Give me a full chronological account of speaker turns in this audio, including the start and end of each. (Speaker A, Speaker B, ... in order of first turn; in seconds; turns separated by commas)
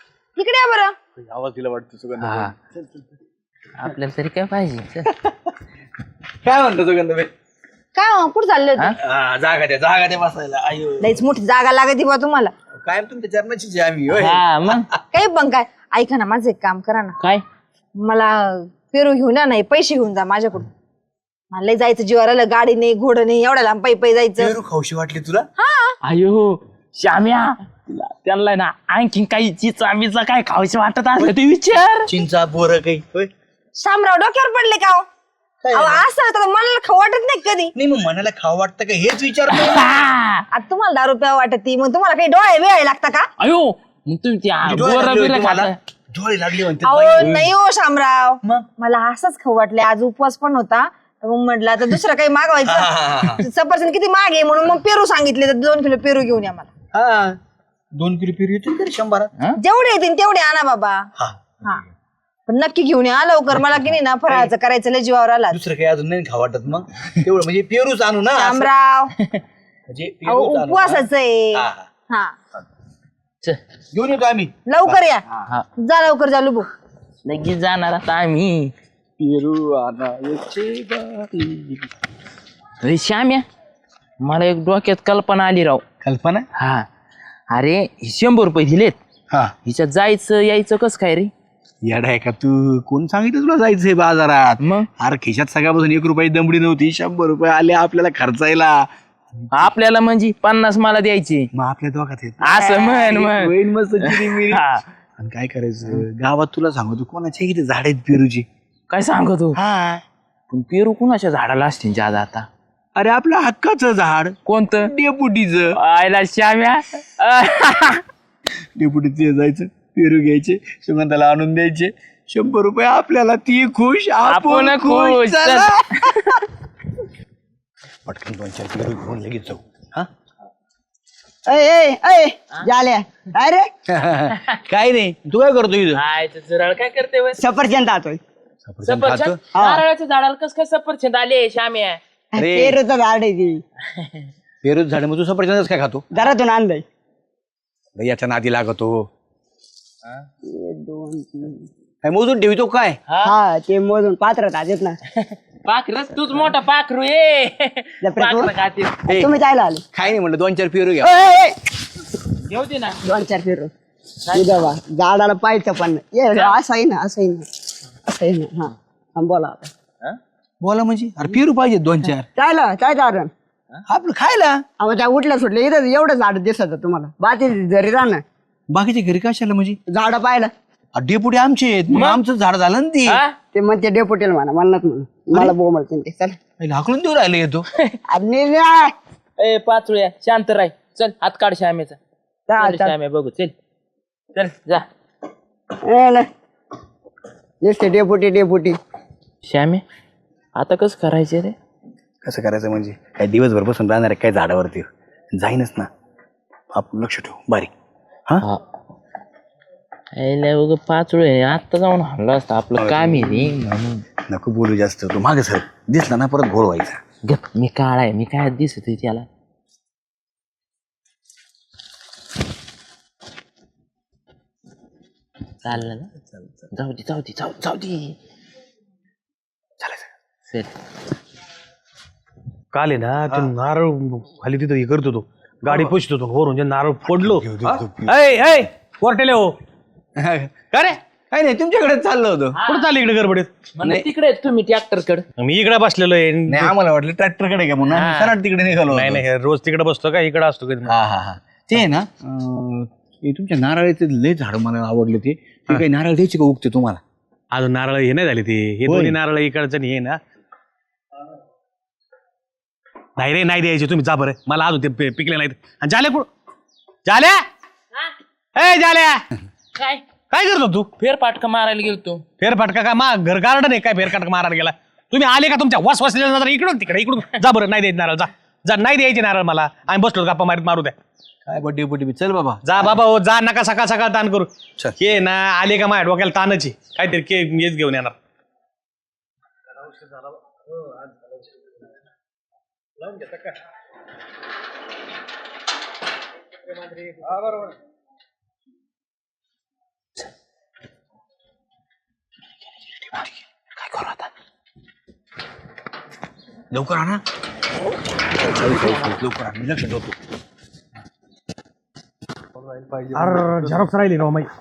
Speaker A: 0.3-0.9, Speaker B: 1.1-3.1, Speaker C: 2.2-2.5, Speaker C: 3.8-5.1, Speaker B: 5.0-5.5, Speaker B: 6.4-7.3, Speaker A: 7.9-8.9, Speaker B: 9.0-11.2, Speaker A: 11.0-12.5, Speaker B: 12.8-15.0, Speaker C: 14.1-14.9, Speaker A: 15.1-17.2, Speaker A: 18.0-20.7, Speaker A: 21.5-24.5, Speaker B: 24.4-25.5, Speaker A: 25.6-25.9, Speaker C: 26.0-32.1, Speaker B: 32.1-33.3, Speaker A: 33.8-35.1, Speaker B: 35.6-36.0, Speaker A: 35.7-37.7, Speaker B: 37.7-40.1, Speaker C: 39.5-40.4, Speaker A: 40.5-43.3, Speaker C: 43.4-45.8, Speaker B: 44.6-47.5, Speaker A: 46.8-56.7, Speaker B: 52.6-53.4, Speaker B: 56.9-57.4, Speaker B: 58.0-59.3, Speaker A: 59.6-61.1, Speaker A: 62.5-65.6, Speaker B: 65.5-68.7, Speaker A: 68.3-69.1, Speaker B: 69.9-71.9, Speaker A: 70.2-72.3, Speaker B: 73.9-75.5, Speaker A: 74.7-75.2, Speaker A: 75.8-76.7, Speaker C: 77.2-78.7, Speaker B: 79.2-81.9, Speaker C: 82.8-83.5, Speaker C: 84.2-85.8, Speaker B: 86.0-86.5, Speaker C: 86.6-86.9, Speaker C: 87.5-89.0, Speaker B: 89.3-89.5, Speaker C: 89.6-91.3, Speaker B: 91.8-99.7, Speaker C: 94.6-94.9, Speaker C: 99.5-101.5, Speaker B: 101.5-104.6, Speaker C: 102.4-104.8, Speaker B: 105.2-108.5, Speaker C: 108.9-109.6, Speaker B: 109.5-110.0, Speaker C: 110.5-112.5, Speaker B: 113.0-115.8, Speaker C: 114.5-114.9, Speaker C: 115.7-118.0, Speaker B: 118.8-125.8, Speaker C: 124.2-126.4, Speaker B: 128.1-130.1, Speaker D: 131.4-133.7, Speaker B: 133.9-136.0, Speaker C: 135.9-137.4, Speaker D: 137.4-138.2, Speaker B: 138.6-139.4, Speaker C: 138.8-142.0, Speaker D: 139.5-139.8, Speaker B: 142.3-142.8, Speaker D: 142.3-143.6, Speaker C: 144.0-144.3, Speaker B: 144.6-146.2, Speaker D: 146.1-146.8, Speaker B: 147.9-149.1, Speaker D: 150.4-151.7, Speaker B: 152.0-153.0, Speaker C: 153.1-153.3, Speaker D: 153.2-155.0, Speaker C: 155.2-159.1, Speaker D: 158.0-158.5, Speaker B: 159.1-159.3, Speaker D: 159.1-159.8, Speaker B: 159.9-161.2, Speaker D: 161.0-161.5, Speaker C: 162.5-163.0, Speaker D: 163.0-163.7, Speaker C: 164.3-164.6, Speaker D: 164.3-167.5, Speaker C: 166.3-166.6, Speaker D: 168.1-169.7, Speaker B: 170.6-172.3, Speaker D: 172.3-173.3, Speaker B: 173.9-174.6, Speaker D: 174.8-178.2, Speaker B: 178.7-179.8, Speaker D: 179.9-180.5, Speaker B: 180.9-183.2, Speaker C: 181.9-182.2, Speaker C: 183.1-183.3, Speaker D: 183.5-186.4, Speaker B: 186.6-187.6, Speaker D: 188.1-188.9, Speaker C: 189.4-192.0, Speaker D: 192.5-192.9, Speaker C: 192.5-193.5, Speaker C: 194.3-194.9, Speaker D: 195.8-196.3, Speaker D: 197.6-198.8, Speaker C: 199.4-199.8, Speaker C: 200.6-201.6, Speaker B: 202.2-205.9, Speaker B: 206.7-207.7, Speaker C: 210.2-214.0, Speaker B: 212.8-213.6, Speaker B: 214.2-217.0, Speaker C: 217.2-219.3, Speaker C: 225.6-226.1, Speaker B: 226.3-226.6, Speaker C: 226.7-228.2, Speaker B: 229.8-230.1, Speaker E: 232.7-239.5, Speaker B: 237.1-238.3, Speaker B: 240.2-240.5, Speaker E: 240.7-241.0, Speaker B: 241.3-242.6, Speaker C: 242.5-242.9, Speaker E: 242.7-243.5, Speaker C: 243.8-245.2, Speaker B: 243.8-244.1, Speaker E: 245.4-246.7, Speaker B: 246.5-249.2, Speaker C: 247.9-248.3, Speaker E: 248.9-250.9, Speaker B: 250.8-257.0, Speaker E: 257.5-260.2, Speaker B: 258.8-259.2, Speaker E: 263.2-266.3, Speaker E: 267.1-267.4, Speaker E: 268.6-269.2, Speaker C: 269.8-270.0, Speaker E: 270.3-270.9, Speaker C: 271.0-272.2, Speaker E: 272.4-280.9, Speaker B: 281.4-283.0, Speaker E: 282.6-288.2, Speaker C: 302.9-303.2, Speaker C: 303.8-304.3, Speaker B: 306.7-307.2, Speaker B: 308.4-310.2, Speaker B: 312.7-313.6, Speaker E: 313.1-314.5